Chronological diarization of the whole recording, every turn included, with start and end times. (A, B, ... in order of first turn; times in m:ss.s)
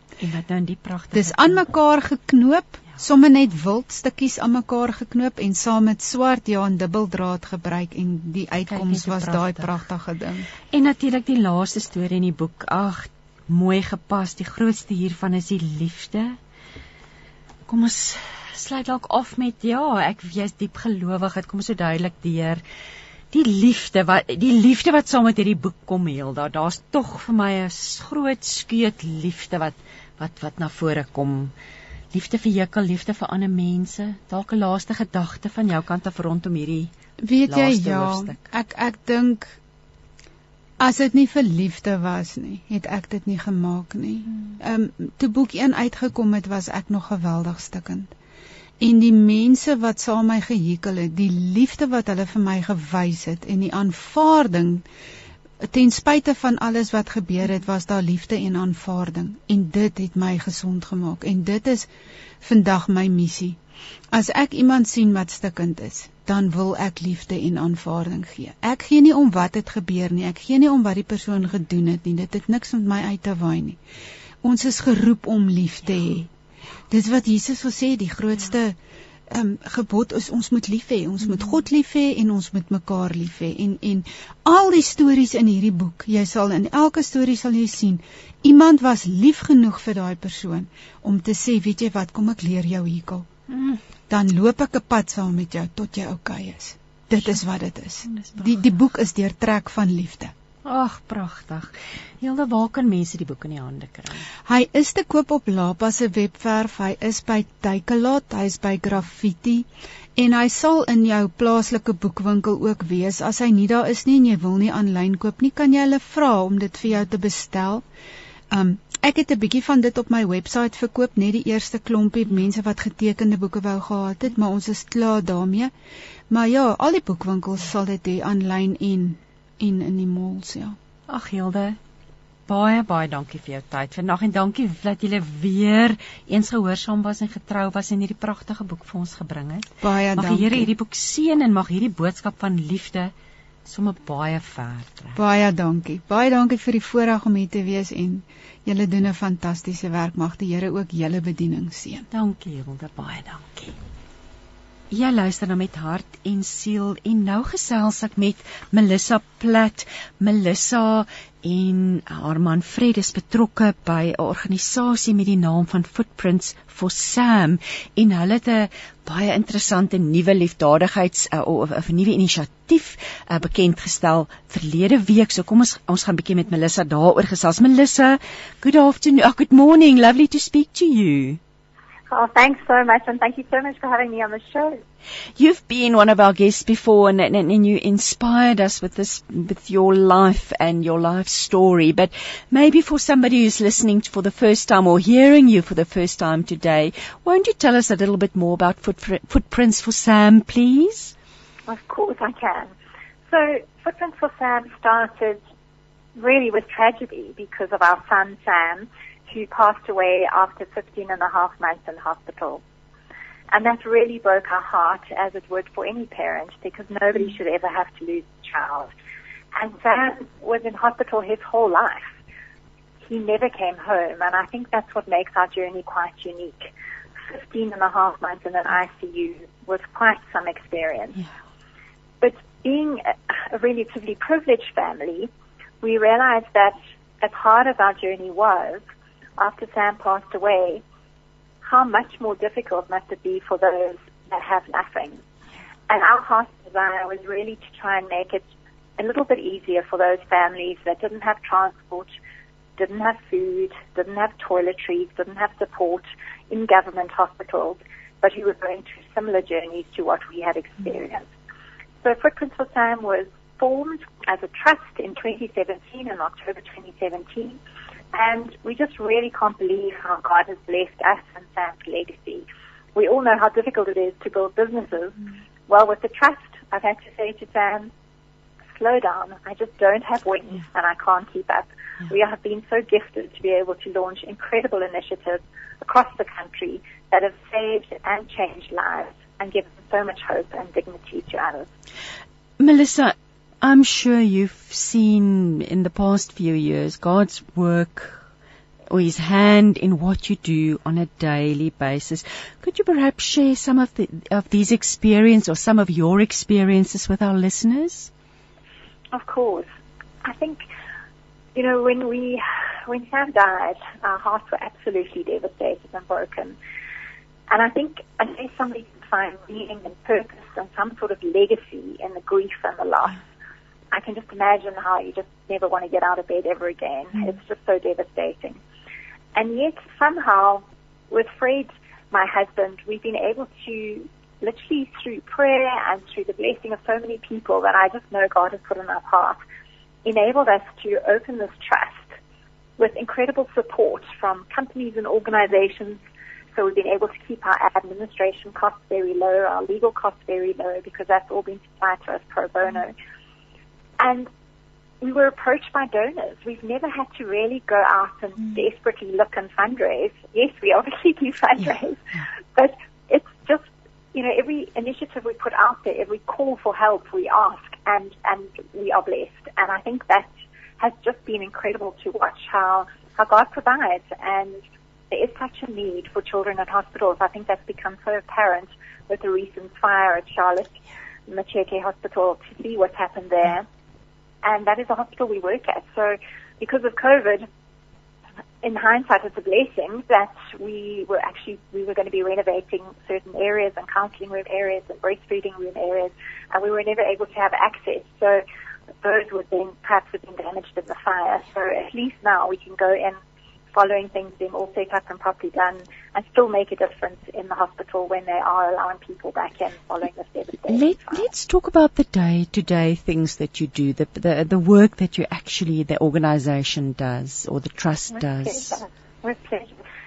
0:00.2-0:01.6 A
0:01.1-0:10.5 B
0:08.7-0:09.8 A
0:10.7-0:16.4 A
0:17.7-0:22.6 A
0:23.3-0:31.5 A
0:32.1-0:36.9 A
0:37.2-0:39.5 B
0:37.4-0:38.4 A
0:40.8-0:48.1 B
0:48.8-0:54.8 B
0:55.6-1:01.9 B
1:02.4-1:03.6 B
1:04.1-1:13.8 B
1:14.4-1:16.3 B
1:16.9-1:18.8 B
1:19.3-1:33.3 B
1:33.5-1:33.8 A
1:34.1-1:40.3 B
1:38.1-1:38.6 A
1:40.6-1:44.3 A
1:44.4-1:57.8 B
1:58.5-2:05.7 B
2:06.3-2:10.8 B
2:11.1-2:11.8 A
2:12.5-2:23.1 A
2:19.8-2:20.7 B
2:23.6-2:25.2 A
2:25.2-2:32.0 B
2:32.1-2:33.8 A
2:34.9-3:01.4 A
3:02.1-3:04.8 C
3:05.4-3:21.1 A
3:21.7-3:22.7 C
3:23.3-3:25.4 C
3:26.2-3:32.6 C
3:33.5-3:38.9 C
3:39.5-3:42.1 C
3:43.0-3:46.7 C
3:47.3-3:51.2 C
3:52.2-3:58.8 C
3:59.4-4:00.8 C
4:01.6-4:05.2 C
4:05.9-4:12.1 C
4:12.8-4:21.3 C
4:22.0-4:27.6 C
4:28.1-4:37.9 C
4:38.7-4:51.7 C
4:52.6-4:58.2 A
4:58.9-5:08.1 A
5:09.1-5:09.7 C
5:10.2-5:10.6 C
5:11.5-5:16.6 C
5:17.5-5:23.2 C
5:23.9-5:28.6 C
5:29.3-5:39.4 C
5:40.0-5:42.1 C
5:42.8-5:46.0 C
5:46.5-5:52.9 C
5:54.0-5:54.3 C
5:55.0-6:14.6 C
6:15.1-6:20.8 C
6:21.3-6:23.6 C
6:24.4-6:27.5 C
6:28.6-6:38.4 C
6:39.0-6:43.2 C
6:43.7-6:51.3 C
6:50.7-6:58.8 A
6:58.4-6:59.8 C